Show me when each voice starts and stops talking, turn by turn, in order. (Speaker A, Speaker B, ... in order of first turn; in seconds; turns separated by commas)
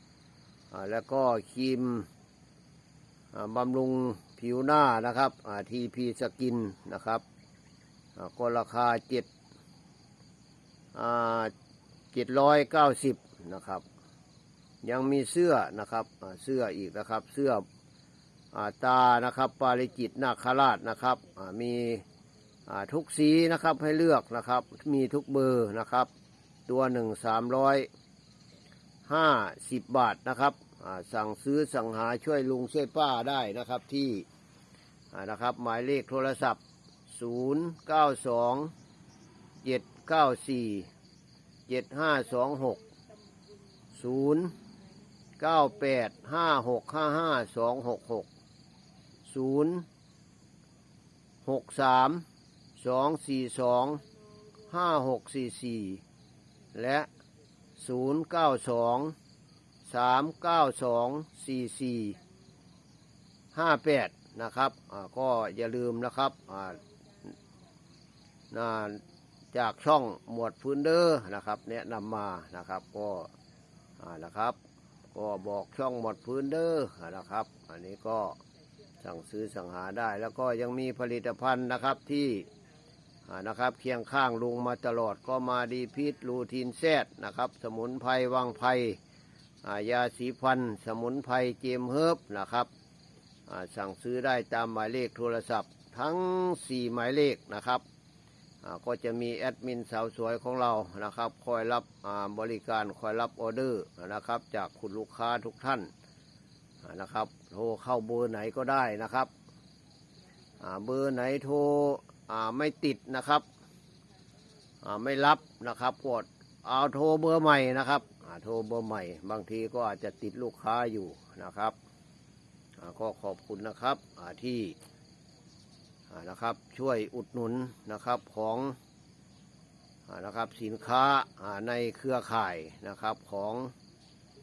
Speaker A: 0.7-2.1, Speaker A: 3.3-7.2, Speaker A: 8.2-9.3, Speaker A: 10.9-11.5, Speaker A: 12.1-13.8, Speaker A: 14.8-17.6, Speaker A: 18.5-22.0, Speaker A: 22.7-26.1, Speaker A: 26.7-27.9, Speaker A: 29.1-34.3, Speaker A: 35.1-38.7, Speaker A: 39.6-40.9, Speaker A: 41.7-42.8, Speaker A: 43.9-44.5, Speaker A: 45.4-48.3, Speaker A: 49.2-49.9, Speaker A: 51.4-52.2, Speaker A: 52.8-54.0, Speaker A: 54.7-56.0, Speaker A: 56.7-57.1, Speaker A: 57.8-59.2, Speaker A: 59.9-62.2, Speaker A: 63.5-66.8, Speaker A: 68.5-69.0, Speaker A: 69.5-73.3, Speaker A: 74.0-74.6, Speaker A: 75.1-78.4, Speaker A: 79.0-82.5, Speaker A: 83.2-89.0, Speaker A: 89.6-92.7, Speaker A: 93.5-97.8, Speaker A: 98.6-105.9, Speaker A: 106.8-109.3, Speaker A: 110.6-113.5, Speaker A: 114.8-121.8, Speaker A: 122.8-124.8, Speaker A: 126.1-128.8, Speaker A: 130.1-133.7